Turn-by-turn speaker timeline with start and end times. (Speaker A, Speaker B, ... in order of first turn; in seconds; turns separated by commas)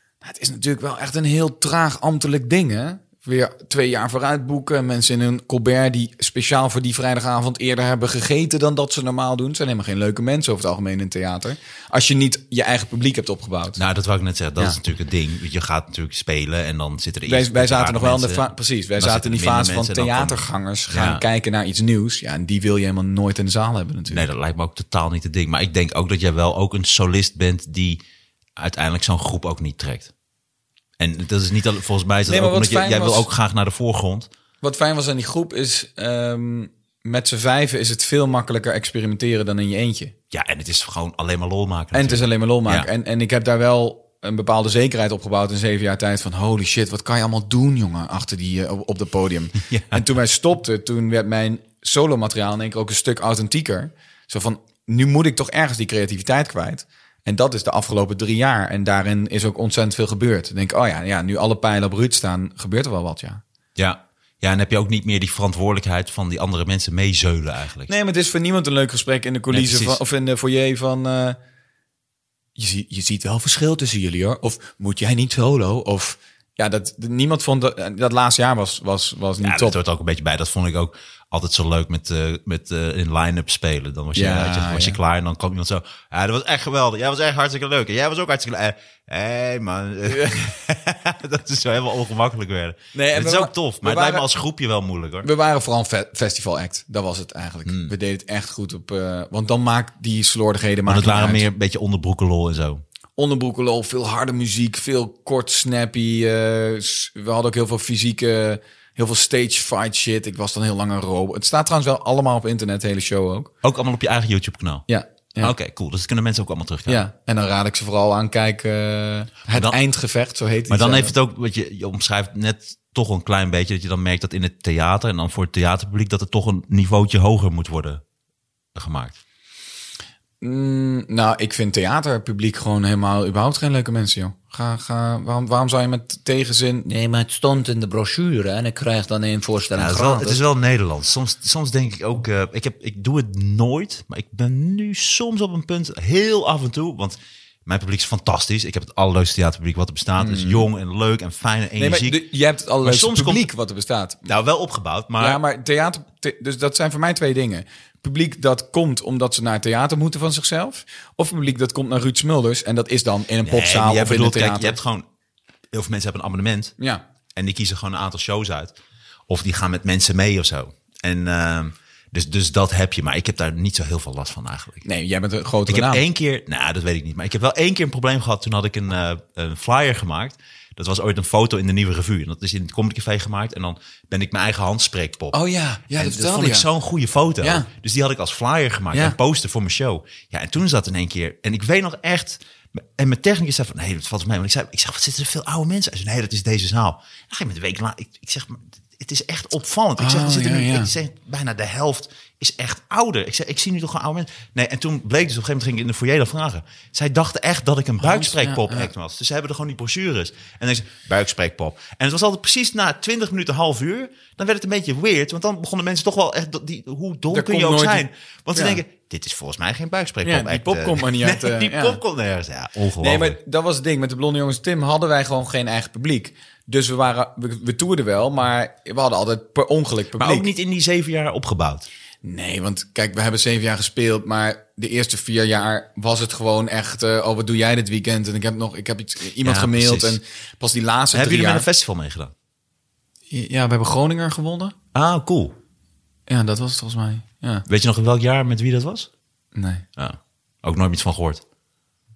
Speaker A: 0.2-13.8, Speaker B: 13.8-21.2, Speaker A: 17.2-24.2, Speaker B: 24.1-28.0, Speaker B: 28.6-30.1, Speaker B: 31.0-34.3, Speaker A: 32.2-33.2, Speaker A: 34.6-40.1, Speaker B: 40.3-42.9, Speaker A: 41.9-63.4, Speaker B: 49.6-50.0, Speaker B: 63.8-67.9, Speaker A: 67.9-71.4, Speaker B: 69.5-70.0, Speaker A: 72.6-79.8, Speaker B: 79.4-95.3, Speaker A: 84.1-85.0, Speaker A: 90.0-90.5, Speaker A: 92.9-94.2, Speaker A: 95.2-101.4, Speaker B: 97.7-97.9, Speaker B: 100.8-102.8, Speaker A: 103.2-113.5, Speaker B: 113.6-114.9, Speaker A: 114.9-115.5, Speaker B: 115.4-117.0, Speaker A: 116.9-121.1, Speaker B: 119.5-119.8, Speaker B: 120.7-128.0, Speaker B: 128.7-129.2, Speaker A: 130.4-136.9, Speaker C: 136.9-140.4, Speaker B: 139.8-152.2, Speaker A: 150.2-150.7, Speaker A: 151.8-154.2, Speaker B: 152.8-153.5, Speaker B: 154.2-155.4, Speaker A: 155.2-164.8, Speaker B: 163.4-165.0, Speaker B: 165.7-166.7, Speaker B: 167.3-168.7, Speaker B: 169.3-174.8, Speaker A: 174.8-176.0, Speaker B: 175.7-185.3, Speaker A: 185.3-186.7, Speaker B: 186.0-223.4, Speaker A: 187.4-187.7, Speaker A: 200.0-200.9, Speaker A: 208.0-208.9, Speaker A: 217.3-218.8, Speaker A: 220.2-222.0, Speaker A: 223.0-230.5, Speaker B: 230.2-231.9, Speaker A: 232.2-241.7, Speaker B: 239.4-240.2, Speaker B: 241.1-242.3, Speaker A: 243.3-244.7, Speaker B: 244.9-245.5, Speaker A: 246.3-247.6, Speaker B: 247.7-249.1, Speaker A: 249.5-249.8, Speaker B: 250.0-251.4